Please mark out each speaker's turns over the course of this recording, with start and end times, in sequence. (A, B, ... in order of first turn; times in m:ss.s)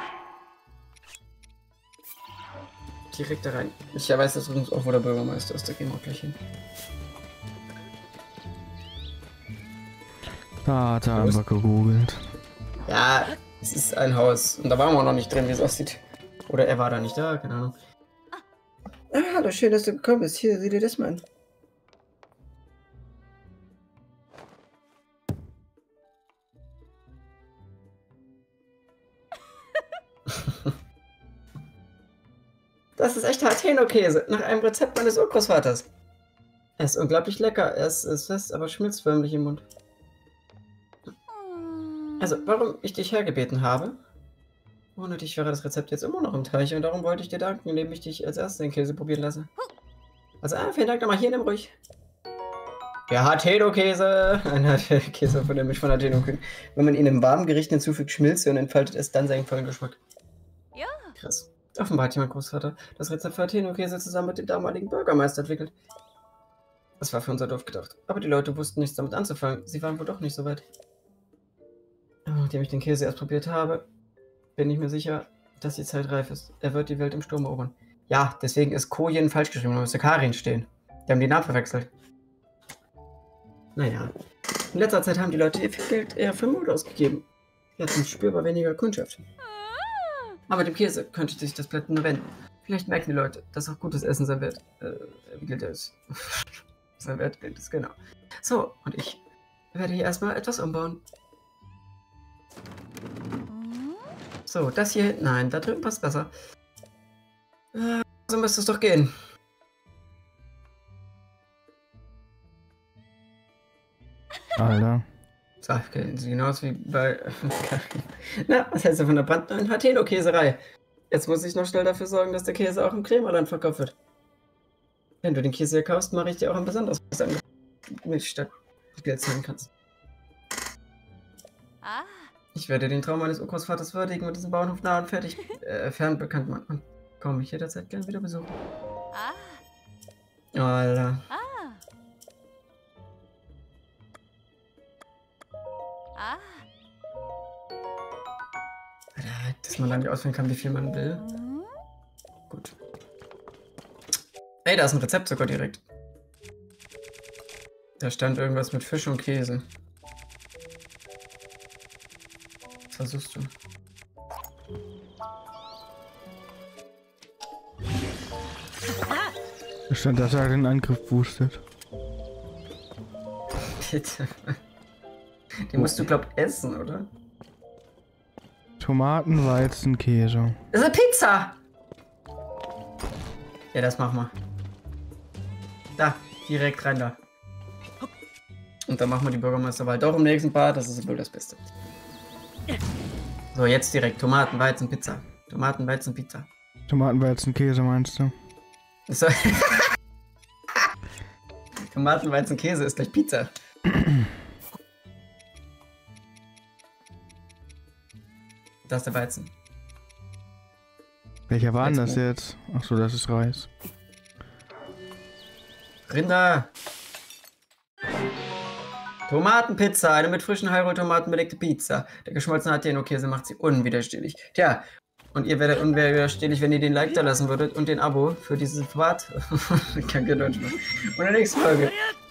0:03.1-0:06.4 A
0:10.6-0:12.2 B
0:11.1-0:11.4 A
0:12.8-0:17.7 A
0:19.1-0:21.2 A
0:30.3-0:30.7 A
0:33.0-0:35.9 A
0:36.8-0:39.6 A
0:41.4-0:42.4 C
0:42.2-0:44.0 A
0:44.9-0:49.5 A
0:50.4-0:51.7 A
0:53.1-1:00.0 A
1:00.7-1:01.1 C
1:01.2-1:05.7 A
1:07.0-1:10.6 A
1:12.2-1:13.9 A
1:14.6-1:21.9 A
1:23.8-1:24.1 A
1:24.7-1:27.2 A
1:27.8-1:29.2 A
1:29.7-1:30.4 C
1:30.5-1:36.4 A
1:37.0-1:39.2 A
1:39.7-1:41.0 A
1:43.5-1:43.9 C
1:44.4-1:46.3 A
1:47.7-1:49.1 A
1:54.6-1:55.0 B
1:55.6-2:04.0 A
2:05.2-2:09.7 A
2:11.8-2:12.3 C
2:12.5-2:18.6 A
2:19.1-2:19.6 C
2:20.5-2:21.3 A
2:21.3-2:21.8 C
2:26.2-2:26.6 C
2:29.2-2:31.2 A
2:31.2-2:31.7 C
2:32.5-2:32.7 A
2:34.6-2:35.8 A
2:38.0-2:39.6 A
2:42.9-2:43.5 A
2:49.9-2:51.6 B
2:53.8-2:54.6 A
2:55.6-2:57.1 A
2:55.8-2:56.0 B
2:58.8-3:00.6 B
3:00.7-3:01.6 A
3:03.7-3:04.3 A
3:05.9-3:07.2 A
3:08.9-3:11.7 A
3:13.5-3:16.5 A
3:16.9-3:18.3 B
3:19.1-3:19.9 A
3:21.9-3:23.5 A
3:23.9-3:24.3 B
3:28.8-3:29.5 A
3:31.5-3:33.7 B
3:31.8-3:32.2 A
3:36.1-3:36.7 A
3:39.3-3:52.0 A